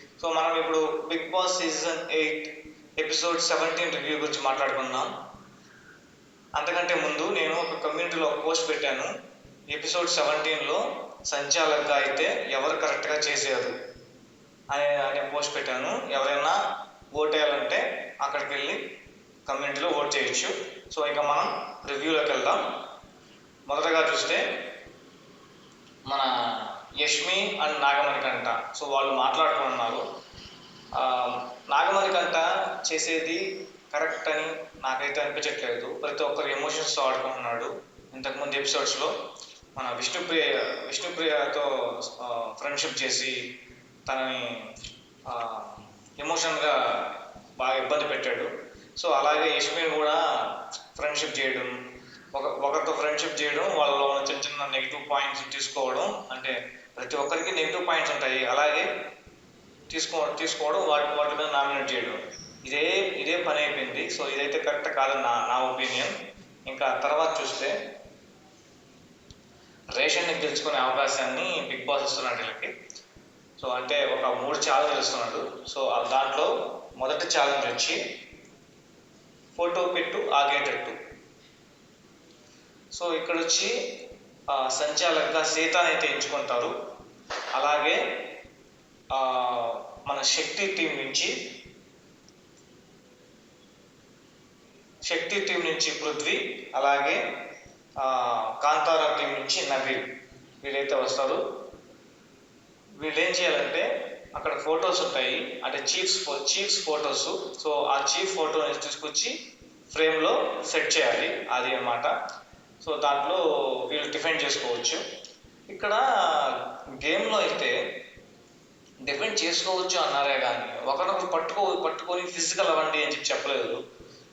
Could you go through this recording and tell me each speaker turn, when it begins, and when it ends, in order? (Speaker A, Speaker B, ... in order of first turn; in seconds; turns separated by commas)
Speaker A: 0.2-5.1, Speaker A: 6.5-9.1, Speaker A: 9.7-13.7, Speaker A: 14.7-16.6, Speaker A: 17.1-18.8, Speaker A: 19.5-22.6, Speaker A: 23.7-24.4, Speaker A: 26.1-30.1, Speaker A: 30.9-39.1, Speaker A: 39.8-43.4, Speaker A: 44.1-44.5, Speaker A: 45.3-51.7, Speaker A: 52.3-58.9, Speaker A: 59.9-66.1, Speaker A: 66.7-67.7, Speaker A: 70.0-72.7, Speaker A: 73.6-78.0, Speaker A: 79.5-81.0, Speaker A: 82.9-83.7, Speaker A: 84.5-86.7, Speaker A: 87.6-88.0, Speaker A: 89.1-91.3, Speaker A: 95.1-97.2, Speaker A: 98.0-100.1, Speaker A: 100.6-101.4, Speaker A: 103.0-109.3, Speaker A: 109.9-112.1, Speaker A: 112.8-115.0, Speaker A: 115.7-117.8, Speaker A: 119.1-123.8